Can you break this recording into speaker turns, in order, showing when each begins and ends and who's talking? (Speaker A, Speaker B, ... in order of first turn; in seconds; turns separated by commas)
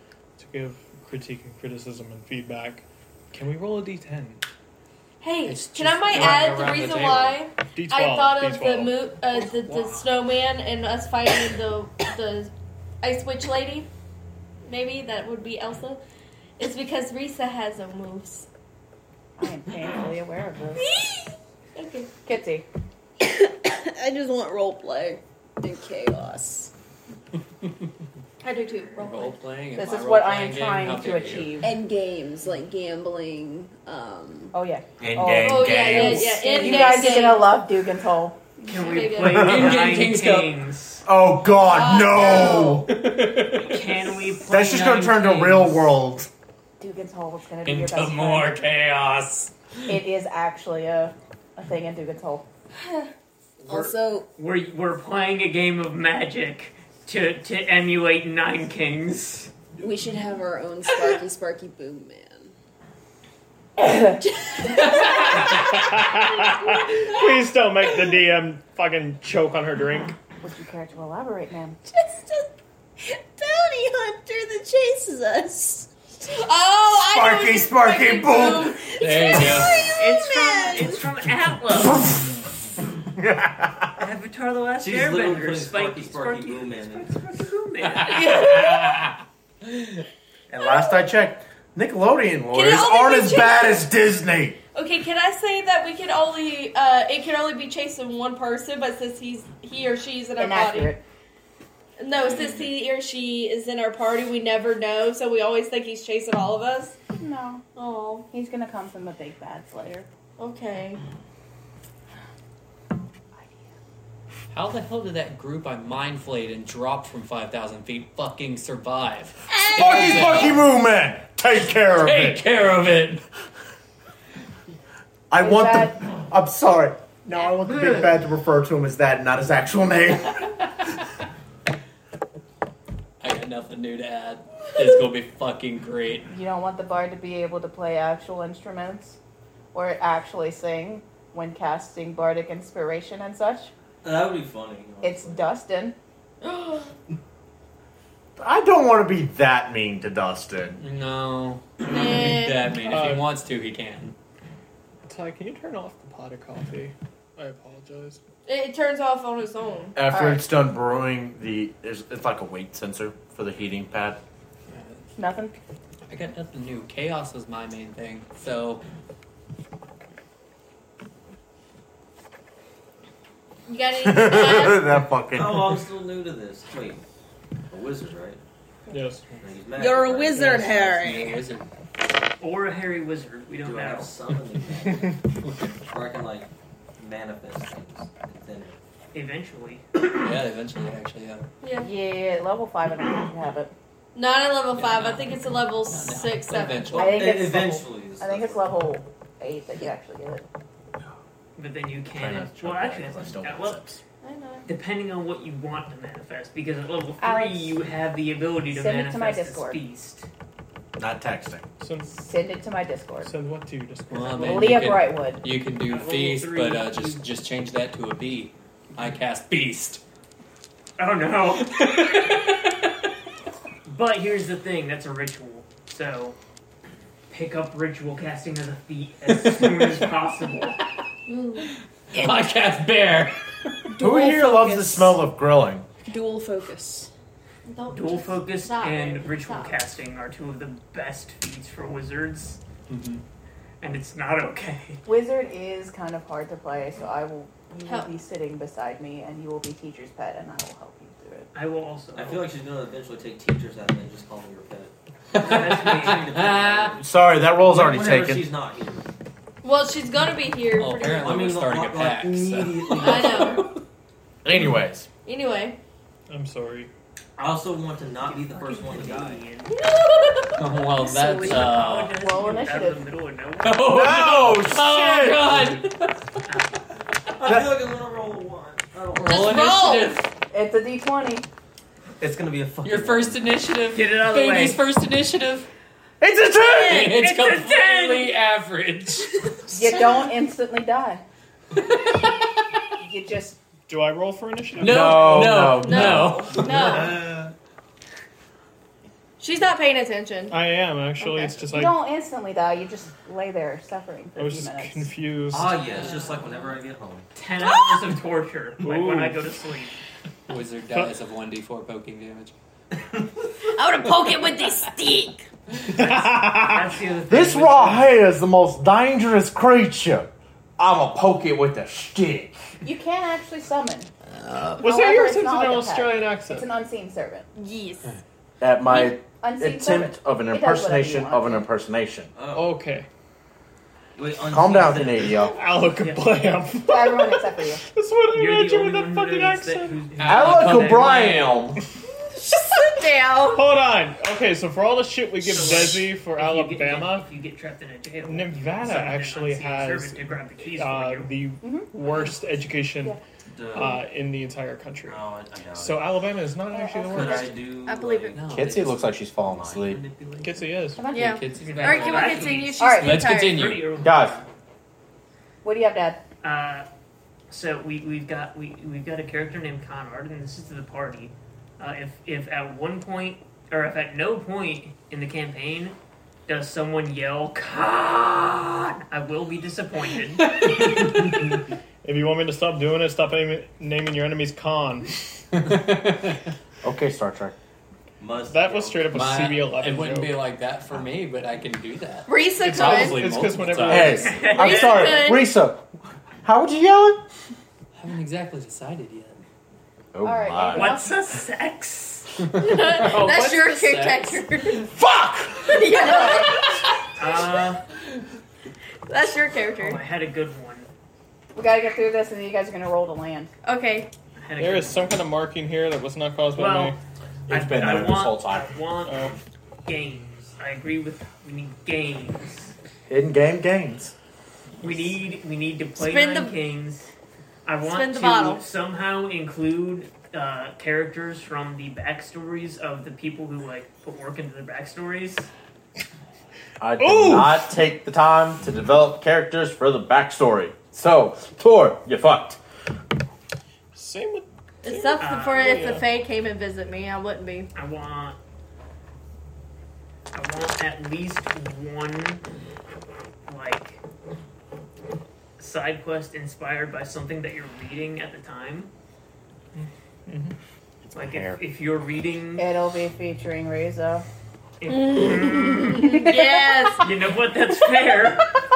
Speaker A: 0.4-4.4, Speaker B: 5.2-12.5, Speaker C: 5.4-7.4, Speaker A: 6.2-6.5, Speaker A: 7.7-9.0, Speaker D: 9.3-10.1, Speaker B: 13.0-13.9, Speaker B: 14.7-16.0, Speaker B: 16.6-18.5, Speaker E: 19.4-20.9, Speaker B: 20.9-21.2, Speaker B: 21.8-22.1, Speaker E: 22.2-22.6, Speaker F: 23.2-26.7, Speaker B: 28.4-29.4, Speaker C: 28.9-31.6, Speaker E: 29.8-31.7, Speaker F: 31.6-34.5, Speaker E: 34.5-38.4, Speaker G: 35.0-36.6, Speaker B: 35.4-37.6, Speaker B: 38.6-39.4, Speaker D: 38.7-41.0, Speaker C: 39.3-40.5, Speaker G: 39.4-39.8, Speaker G: 41.0-42.9, Speaker B: 41.6-42.8, Speaker C: 42.8-43.8, Speaker D: 43.6-45.9, Speaker G: 44.5-46.3, Speaker E: 46.8-48.6, Speaker C: 47.6-49.5, Speaker E: 49.9-52.5, Speaker B: 52.8-53.1, Speaker D: 53.6-59.5, Speaker F: 53.6-54.3, Speaker F: 59.8-62.5, Speaker E: 63.8-64.2, Speaker F: 64.2-65.2, Speaker C: 64.7-65.6, Speaker A: 65.5-70.1, Speaker E: 70.4-71.8, Speaker F: 71.9-75.9, Speaker B: 76.2-79.5, Speaker G: 76.9-78.8, Speaker C: 79.0-79.7, Speaker F: 79.0-81.0, Speaker D: 79.8-82.1, Speaker G: 81.9-82.2, Speaker G: 83.2-84.0, Speaker D: 84.0-88.5, Speaker H: 84.8-87.1, Speaker C: 87.8-90.0, Speaker G: 88.3-88.8, Speaker G: 90.5-94.6, Speaker B: 92.5-93.8, Speaker B: 94.7-101.0, Speaker E: 100.4-101.0, Speaker B: 102.0-107.0, Speaker E: 107.2-107.6, Speaker B: 107.7-108.3, Speaker E: 108.3-110.1, Speaker B: 110.4-111.0, Speaker C: 114.5-120.6, Speaker G: 119.7-122.4, Speaker C: 121.8-123.2, Speaker G: 125.3-130.5, Speaker E: 125.4-126.0, Speaker C: 133.2-136.3, Speaker E: 136.3-139.2, Speaker E: 139.7-143.7, Speaker H: 144.0-145.5, Speaker E: 145.0-145.9, Speaker B: 146.4-146.9, Speaker G: 148.4-150.8, Speaker C: 150.8-154.1, Speaker B: 151.9-152.7, Speaker A: 152.8-153.3, Speaker A: 155.1-158.2, Speaker B: 158.4-160.2, Speaker G: 159.9-164.2, Speaker E: 160.1-160.4, Speaker C: 164.7-165.0, Speaker E: 165.2-165.5, Speaker C: 166.1-168.8, Speaker B: 173.7-174.9, Speaker G: 174.0-175.9, Speaker H: 175.3-177.0, Speaker H: 177.7-178.4, Speaker A: 178.9-179.4, Speaker H: 179.4-180.9, Speaker F: 179.8-181.5, Speaker C: 180.4-181.7, Speaker D: 182.4-184.1, Speaker H: 183.6-185.2, Speaker H: 185.9-188.8, Speaker D: 189.1-189.8, Speaker C: 190.2-191.5, Speaker B: 191.6-191.9, Speaker E: 191.8-193.7, Speaker B: 194.1-197.1, Speaker C: 194.7-197.3, Speaker H: 196.9-198.8, Speaker E: 196.9-200.4, Speaker D: 201.6-203.8, Speaker G: 202.1-204.0, Speaker B: 204.2-204.7, Speaker D: 204.7-210.3, Speaker E: 207.2-207.8, Speaker E: 208.7-209.8, Speaker G: 211.0-211.7, Speaker A: 211.8-212.1, Speaker E: 212.1-213.3, Speaker A: 213.2-214.9, Speaker C: 214.1-220.0, Speaker E: 214.4-215.4, Speaker D: 215.8-217.2, Speaker D: 221.0-221.8, Speaker C: 221.6-222.7, Speaker D: 223.8-226.3, Speaker D: 227.3-230.8, Speaker C: 229.2-230.1, Speaker B: 231.3-231.7, Speaker C: 232.1-233.4, Speaker F: 233.9-235.2, Speaker G: 234.0-235.8, Speaker F: 236.1-237.1, Speaker B: 237.7-239.8, Speaker D: 237.9-242.6, Speaker C: 242.9-243.2, Speaker D: 243.8-245.0, Speaker E: 245.1-251.5, Speaker D: 251.5-252.5, Speaker H: 252.1-259.1, Speaker C: 255.3-257.0, Speaker D: 255.3-256.9, Speaker G: 257.0-258.5, Speaker B: 259.6-261.4, Speaker C: 260.7-263.8, Speaker H: 261.1-263.6, Speaker B: 262.9-263.7, Speaker G: 264.4-265.1, Speaker B: 265.2-265.8, Speaker A: 266.3-266.9, Speaker H: 267.4-269.4, Speaker D: 267.4-269.7, Speaker B: 269.7-270.6, Speaker C: 270.6-272.1, Speaker D: 270.8-274.6, Speaker E: 271.0-273.0, Speaker C: 273.6-276.4, Speaker G: 273.9-275.6, Speaker D: 276.4-276.8, Speaker H: 277.3-279.6, Speaker G: 277.4-277.7, Speaker C: 279.1-280.3, Speaker B: 279.2-280.2, Speaker E: 280.5-281.5, Speaker H: 282.2-283.5, Speaker C: 282.8-285.7, Speaker D: 283.9-284.8, Speaker G: 286.2-287.2, Speaker C: 286.8-290.1, Speaker D: 286.9-288.4, Speaker E: 289.7-291.2, Speaker E: 293.0-293.6, Speaker A: 293.9-295.6, Speaker C: 294.8-297.1, Speaker G: 294.8-296.6, Speaker B: 295.8-297.2, Speaker H: 296.6-297.5, Speaker B: 299.4-300.6, Speaker A: 300.5-302.0, Speaker E: 301.2-305.1, Speaker A: 304.4-305.8, Speaker H: 305.5-307.3, Speaker D: 307.4-309.9, Speaker B: 307.6-308.0, Speaker A: 308.8-309.4, Speaker C: 310.5-312.5, Speaker B: 313.7-315.4, Speaker C: 314.1-314.5, Speaker A: 315.9-316.9, Speaker D: 316.0-318.2, Speaker G: 317.3-322.7, Speaker E: 322.8-324.1, Speaker B: 324.5-324.8, Speaker A: 324.8-326.7, Speaker E: 324.8-327.5, Speaker B: 327.5-328.1, Speaker G: 328.6-332.3, Speaker E: 329.4-331.6, Speaker H: 332.3-332.8, Speaker A: 332.5-333.1, Speaker H: 334.1-335.5, Speaker G: 334.5-335.6, Speaker A: 335.5-340.0, Speaker D: 336.0-336.3, Speaker E: 336.9-337.8, Speaker D: 338.3-341.5, Speaker C: 340.1-341.3, Speaker G: 340.3-341.8, Speaker B: 342.3-343.6, Speaker A: 343.5-347.3, Speaker D: 345.4-351.4, Speaker A: 348.2-355.2, Speaker E: 351.6-351.9, Speaker H: 353.5-354.1, Speaker H: 355.0-356.3, Speaker A: 355.7-357.7, Speaker E: 356.7-357.5, Speaker H: 357.0-360.0, Speaker B: 357.8-358.4, Speaker C: 358.3-358.9, Speaker G: 358.5-360.0, Speaker D: 359.8-360.9, Speaker A: 360.4-361.1, Speaker E: 361.0-361.4, Speaker B: 361.1-363.6, Speaker C: 361.1-364.0, Speaker D: 361.6-364.4, Speaker E: 362.8-363.1, Speaker G: 364.0-364.4, Speaker E: 365.6-366.2, Speaker D: 366.4-366.9, Speaker D: 367.5-375.9, Speaker D: 376.5-380.6, Speaker C: 380.6-380.9, Speaker A: 382.0-385.2, Speaker C: 385.5-386.4, Speaker G: 386.8-387.5, Speaker H: 388.2-389.5, Speaker A: 388.4-390.4, Speaker C: 389.1-394.4, Speaker B: 392.3-393.2, Speaker A: 392.6-394.5, Speaker G: 393.9-395.9, Speaker D: 394.2-395.3, Speaker B: 394.5-395.5, Speaker G: 396.4-397.2, Speaker C: 397.9-399.4, Speaker G: 400.1-400.9, Speaker E: 400.2-401.0, Speaker D: 400.7-402.3, Speaker B: 402.5-404.9, Speaker C: 402.6-404.8, Speaker G: 404.9-405.8, Speaker B: 405.7-407.1, Speaker E: 405.9-406.5, Speaker D: 407.2-407.8, Speaker B: 409.1-410.0, Speaker D: 409.8-410.9, Speaker E: 411.5-413.5, Speaker B: 413.6-414.1, Speaker D: 414.4-415.2, Speaker A: 414.6-417.0, Speaker D: 416.6-417.0, Speaker G: 417.5-418.7, Speaker D: 417.5-419.3, Speaker A: 419.0-419.4, Speaker D: 419.9-422.7, Speaker G: 423.1-424.1, Speaker D: 424.8-427.1, Speaker B: 425.9-426.5, Speaker D: 427.6-435.5, Speaker B: 427.8-428.6, Speaker G: 436.8-442.6, Speaker A: 437.0-437.7, Speaker A: 443.9-446.0, Speaker B: 444.8-447.7, Speaker D: 445.2-445.8, Speaker D: 447.7-448.4, Speaker D: 450.3-452.4, Speaker D: 453.5-454.0, Speaker D: 455.6-458.9, Speaker A: 459.7-460.6, Speaker D: 461.1-462.7, Speaker G: 461.2-461.6, Speaker E: 462.6-464.2, Speaker D: 464.8-466.2, Speaker B: 464.9-467.1, Speaker E: 465.9-467.0, Speaker D: 467.0-468.5